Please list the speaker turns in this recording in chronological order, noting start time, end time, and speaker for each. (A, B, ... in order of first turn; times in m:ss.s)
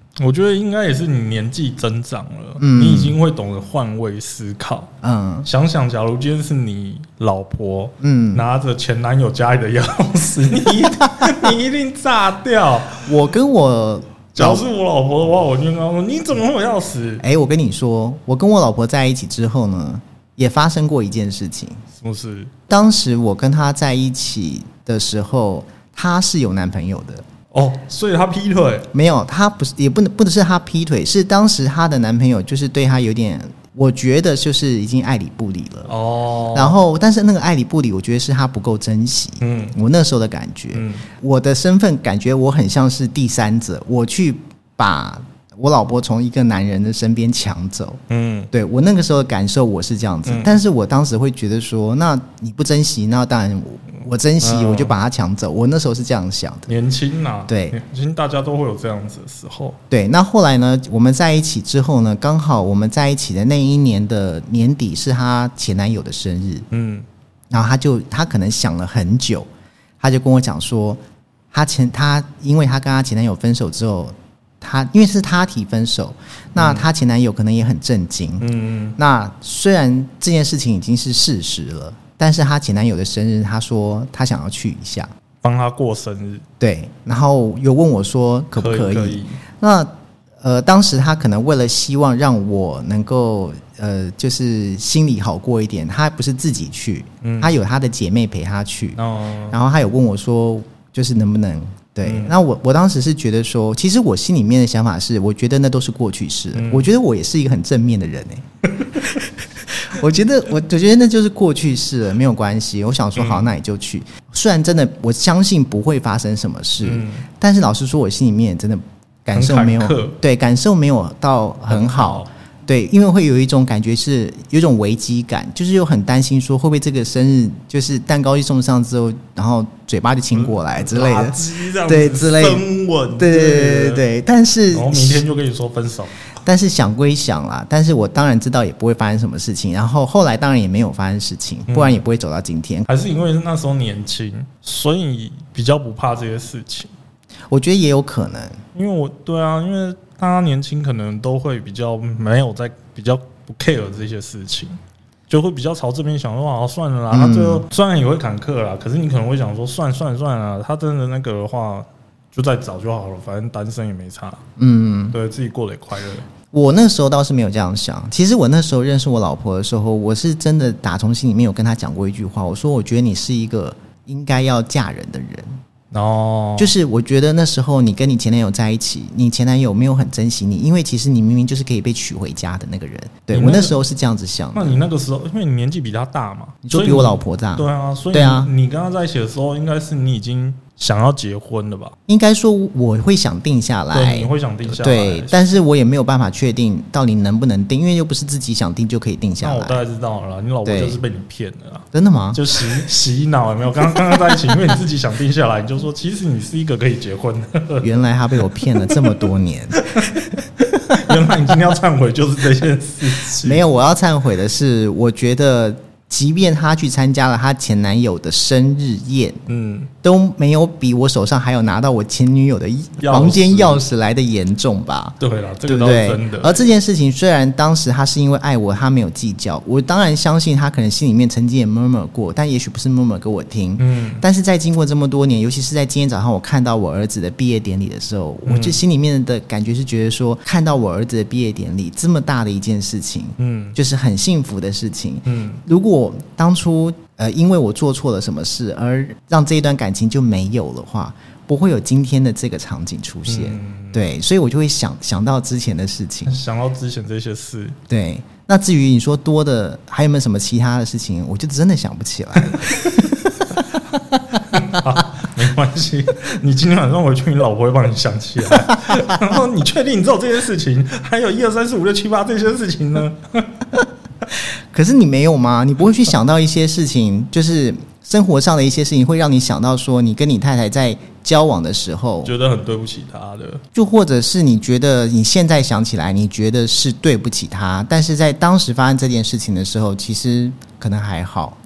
0:00.2-0:04.9 A
0:02.6-0:03.2 B
0:05.0-0:05.5 B
0:05.4-0:13.1 A
0:08.0-0:08.4 B
0:10.8-0:11.4 B
0:13.0-0:14.6 B
0:14.4-0:17.2 A
0:17.2-0:21.8 B
0:22.0-0:22.5 A
0:22.7-0:27.2 B
0:27.5-0:28.9 A
0:28.9-0:35.9 B
0:35.9-0:36.8 A
0:36.5-0:48.0 B
0:39.4-0:39.7 A
0:40.7-0:41.0 A
0:48.1-0:48.5 A
0:48.5-0:56.7 B
0:50.2-0:50.6 A
0:54.4-0:54.9 A
0:56.7-0:59.8 A
0:57.5-0:57.8 B
0:59.9-1:06.7 B
1:06.7-1:07.0 A
1:07.5-1:09.5 B
1:10.0-1:11.0 B
1:11.5-1:25.1 B
1:16.6-1:16.9 A
1:18.4-1:19.0 A
1:25.4-1:26.4 A
1:26.6-1:29.9 B
1:28.6-1:29.4 A
1:30.4-1:39.0 B
1:37.2-1:37.5 A
1:39.0-1:39.6 A
1:39.5-2:12.6 B
1:42.0-1:42.3 A
1:46.5-1:46.9 A
1:53.2-1:53.5 A
1:56.8-1:57.3 A
1:59.3-2:00.2 A
2:01.7-2:02.3 A
2:10.3-2:14.0 A
2:13.2-2:15.2 B
2:14.7-2:16.2 A
2:16.4-2:22.8 B
2:21.7-2:22.0 A
2:22.9-2:26.9 A
2:27.5-2:28.6 B
2:28.7-2:34.8 A
2:35.3-2:44.4 A
2:37.1-2:37.6 B
2:44.6-2:45.2 B
2:45.1-2:46.3 A
2:46.5-2:55.6 B
2:55.9-2:56.7 A
2:56.6-3:04.8 B
3:03.3-3:03.8 A
3:04.5-3:11.9 A
3:06.6-3:08.5 B
3:12.1-3:19.8 B
3:13.9-3:15.4 A
3:19.4-3:27.9 A
3:20.6-3:21.0 B
3:21.9-3:22.4 B
3:27.8-3:29.9 B
3:28.6-3:29.1 A
3:29.7-3:33.6 A
3:30.8-3:31.3 B
3:33.3-3:39.4 B
3:39.5-3:39.9 A
3:40.0-4:16.4 B
3:43.0-3:43.8 A
3:45.2-3:46.7 A
3:53.8-3:54.2 A
3:58.4-3:58.8 A
4:03.4-4:03.8 A
4:05.2-4:05.6 A
4:13.2-4:14.0 A
4:16.2-4:17.8 A
4:17.9-4:24.1 B
4:22.4-4:23.2 A
4:24.4-4:33.6 A
4:28.5-4:29.3 B
4:34.3-4:42.3 B
4:42.2-4:43.6 A
4:43.7-4:51.6 B